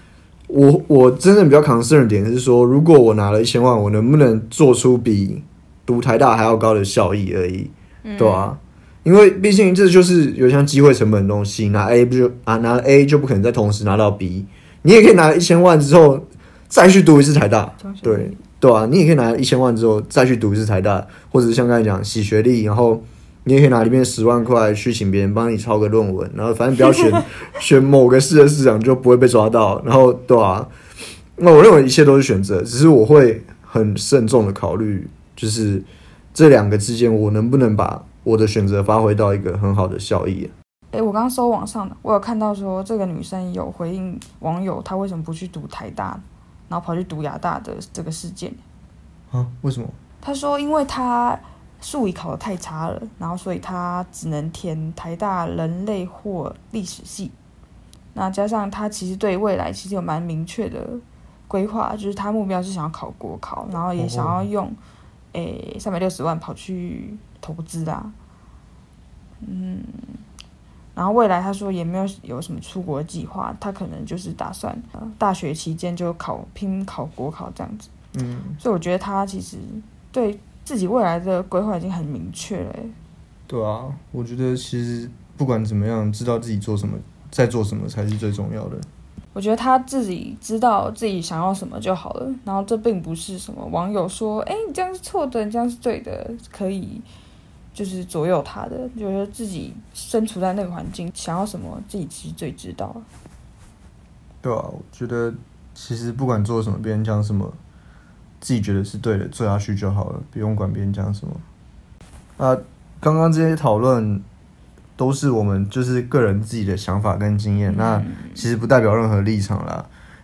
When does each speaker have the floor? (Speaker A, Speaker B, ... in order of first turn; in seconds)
Speaker A: 0.5-30.7, 31.4-40.5, 49.3-50.0, 64.0-64.4, 78.1-78.6, 83.5-88.9, 104.4-107.6, 108.4-111.4, 112.4-114.2, 115.0-119.9
Speaker B: 8.0-8.5, 17.8-18.4, 40.9-48.6, 50.2-57.3, 58.1-64.8, 65.3-68.1, 69.4-70.2, 70.9-77.9, 78.6-83.0, 89.3-97.0, 97.7-103.0, 117.7-118.4